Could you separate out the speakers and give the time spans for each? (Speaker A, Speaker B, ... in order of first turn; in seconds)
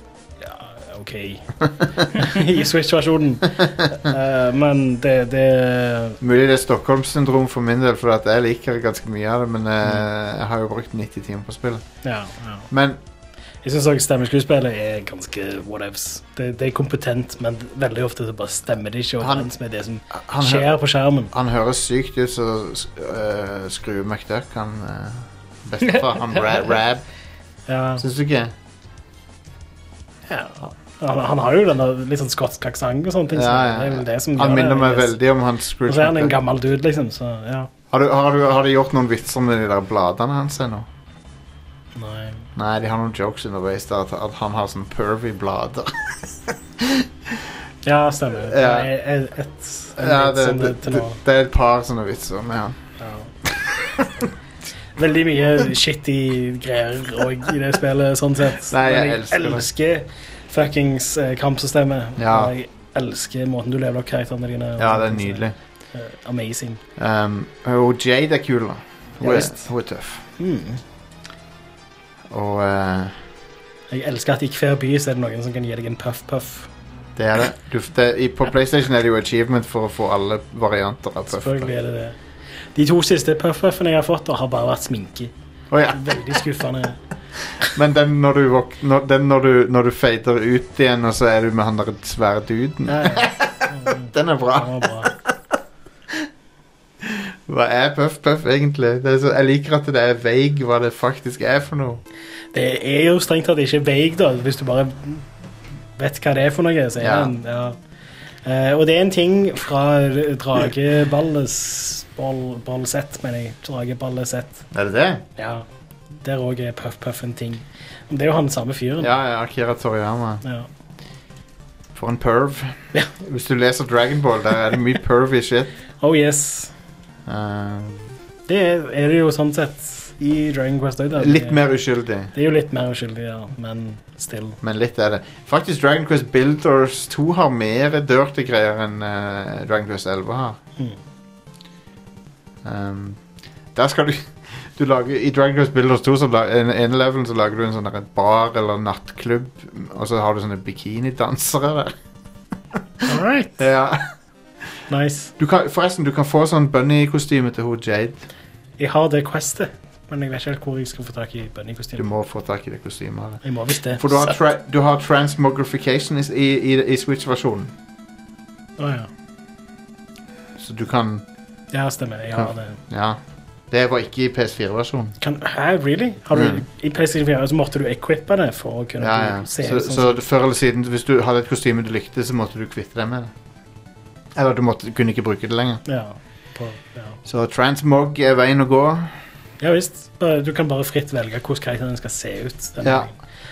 Speaker A: 0.4-1.5, 2.1-6.2, 12.0-12.7, 13.6-21.3, 27.7-28.0, 30.3-35.1, 35.9-37.7, 42.0-42.5, 47.8-51.2, 53.0-53.3, 55.0-65.4, 65.9-66.8, 69.2-69.7, 70.4-70.8, 73.9-76.7, 81.3-82.2, 82.7-85.3, 85.9-87.0, 92.9-95.1, 102.5-105.2, 106.0-107.8, 108.4-114.6, 115.4-115.6, 116.2-119.1, 126.0-126.7, 128.5-131.6, 132.3-134.6, 153.1-153.6, 154.9-155.3, 158.8-162.0, 163.4-164.0, 168.8-169.1, 171.7-172.8, 175.2-180.2, 185.8-187.2, 189.6-193.1
Speaker B: 6.2-11.8, 12.7-13.0, 19.2-19.5, 20.1-20.7, 21.3-27.0, 28.0-28.5, 33.3-36.3, 37.9-40.9, 42.5-46.1, 46.8-47.0, 48.5-48.9, 50.0-52.8, 58.7-59.6, 62.2-62.5, 64.8-65.5, 67.0-70.2, 72.3-73.2, 77.2-81.7, 85.7-86.2, 87.6-95.2, 97.0-102.0, 107.0-107.3, 114.7-115.2, 119.0-120.4, 121.9-125.7, 127.3-128.1, 131.2-132.3, 134.6-140.6, 142.6-143.2, 143.7-151.9, 153.6-154.0, 155.4-158.2, 162.0-167.7, 170.6-171.2, 172.3-173.2, 173.7-175.1, 176.3-176.6, 179.0-183.3, 184.3-185.8, 187.2-189.1, 192.8-193.1